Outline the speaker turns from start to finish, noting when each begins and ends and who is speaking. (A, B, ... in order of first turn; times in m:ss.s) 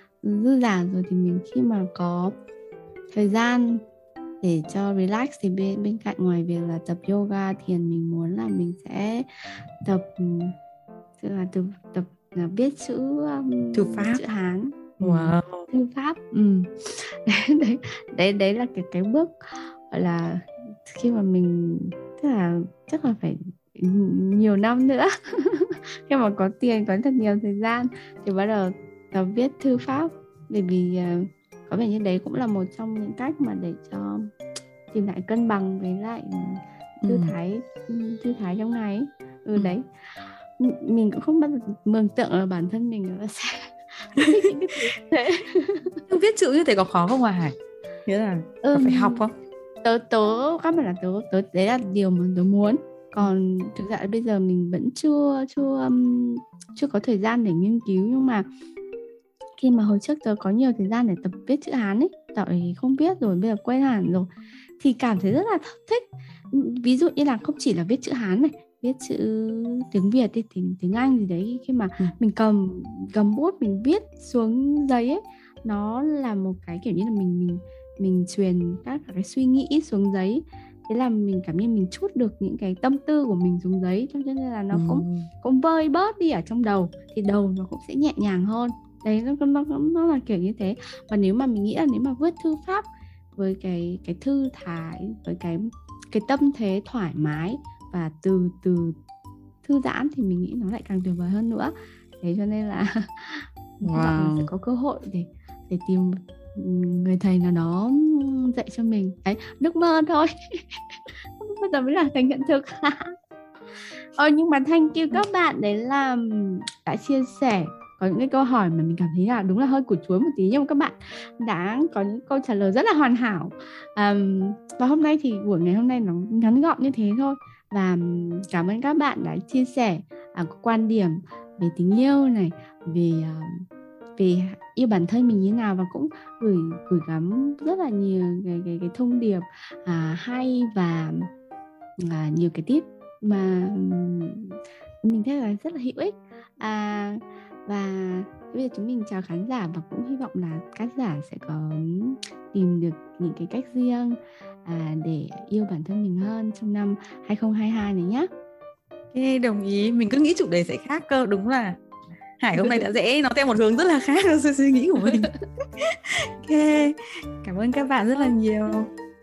0:00.2-0:02.4 A
0:03.1-0:03.8 A
0:04.4-0:10.6 A
0:11.2-0:34.3 A
0:13.7-0:14.2 B
0:15.0-0:15.7 B
0:34.9-0:39.9 A
0:37.0-0:37.3 B
0:40.6-0:46.0 A
0:46.1-0:47.6 B
0:48.1-0:49.3 B
0:48.6-0:49.2 A
0:49.8-0:58.5 A
0:59.6-1:39.0 A
1:24.7-1:25.3 B
1:39.6-1:50.8 A
1:43.8-1:44.5 B
1:51.4-1:53.2 A
1:54.2-2:13.6 A
2:14.2-2:21.3 A
2:22.0-2:38.3 A
2:39.1-2:41.8 B
2:42.4-2:48.9 B
2:42.6-2:42.9 A
2:45.0-2:45.3 A